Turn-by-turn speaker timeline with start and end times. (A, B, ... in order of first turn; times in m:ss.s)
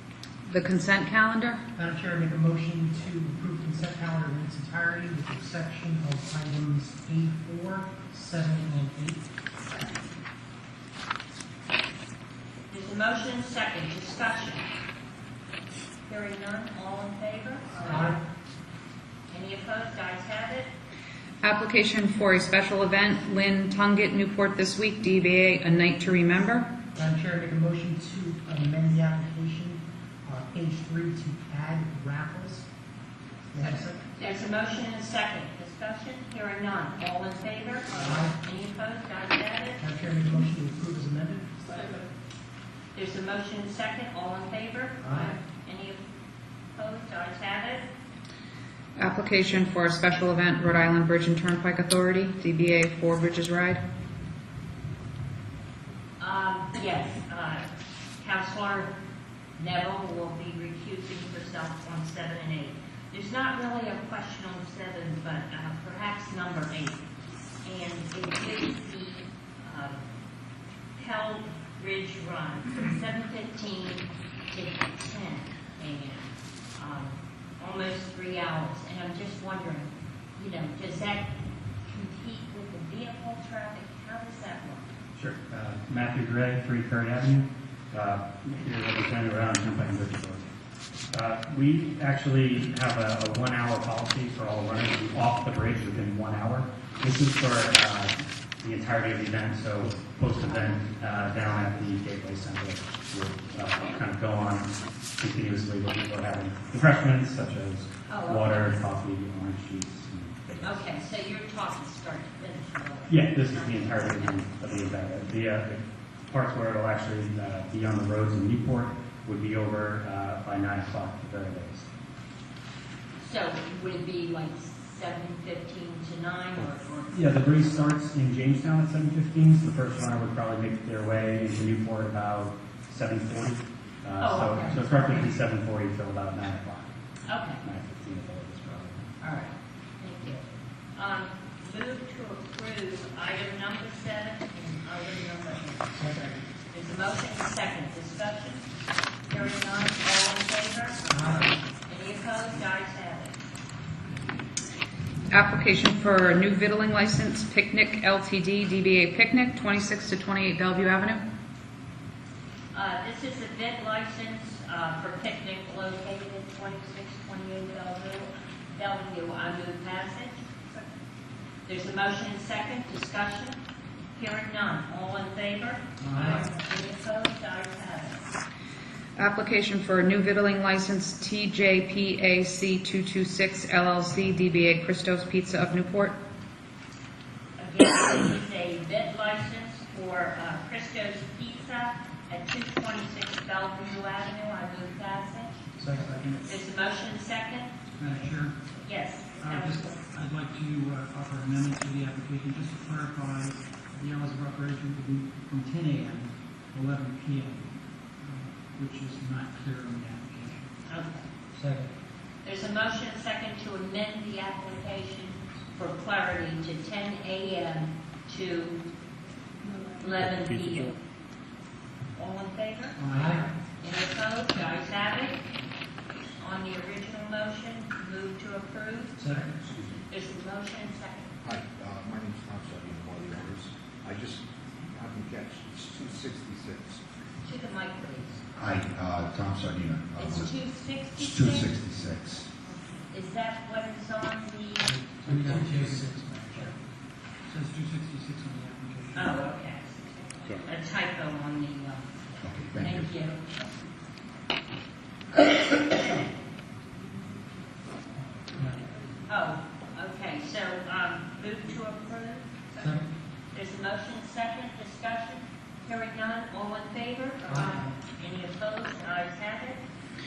0:00.5-0:01.6 A
0:01.8-0:09.3 B
0:12.7-0:14.7 C
0:16.1-0:18.2 C
0:17.8-0:18.2 B
0:19.3-0:20.7 C
0:21.4-0:26.7 A
0:27.0-0:32.7 B
0:33.5-0:34.0 B
0:34.2-0:39.8 C
0:38.0-0:38.4 B
0:39.8-0:42.0 B
0:43.0-0:46.0 C
0:45.0-0:45.4 B
0:46.7-0:47.9 C
0:49.0-0:53.8 A
0:56.2-0:57.7 C
0:58.2-0:59.0 C
0:59.6-1:07.0 C
1:07.6-1:10.0 C
1:11.0-1:24.9 C
1:25.1-1:30.4 D
1:31.1-1:50.8 D
1:48.1-1:48.8 C
1:50.6-1:54.4 C
1:53.1-2:01.9 D
2:03.2-2:07.7 C
2:07.1-2:16.9 D
2:14.2-2:15.3 C
2:17.3-2:17.6 C
2:17.6-2:19.1 D
2:19.2-2:20.4 C
2:21.0-2:28.7 C
2:26.0-2:26.3 B
2:29.3-2:33.4 C
2:31.1-2:31.5 B
2:35.3-2:41.2 A
2:42.7-2:50.6 C
2:51.7-2:53.6 C
2:54.2-2:58.3 C
2:59.2-3:06.2 A
3:07.6-3:15.6 C
3:15.9-3:16.3 E
3:16.4-3:17.7 C
3:18.0-3:18.6 E
3:18.8-3:20.0 C
3:19.4-3:27.7 E
3:28.2-3:30.7 E
3:30.9-3:31.3 C
3:31.6-3:31.9 B
3:32.4-3:38.8 C
3:40.0-3:41.0 C
3:42.2-3:43.0 C
3:43.0-3:43.4 E
3:43.1-3:43.4 B
3:43.8-3:45.4 C
3:46.4-3:49.3 C
3:49.2-3:49.5 B
3:49.6-3:50.0 F
3:50.1-3:51.4 C
3:51.4-3:57.0 F
3:57.4-3:58.4 C
3:58.6-4:00.6 F
4:00.2-4:01.8 C
4:01.2-4:02.5 F
4:02.6-4:04.9 C
4:04.9-4:06.7 B
4:05.1-4:06.7 E
4:07.5-4:09.4 E
4:09.1-4:13.7 C
4:12.4-4:13.1 F
4:19.3-4:29.8 C
4:27.5-4:27.9 B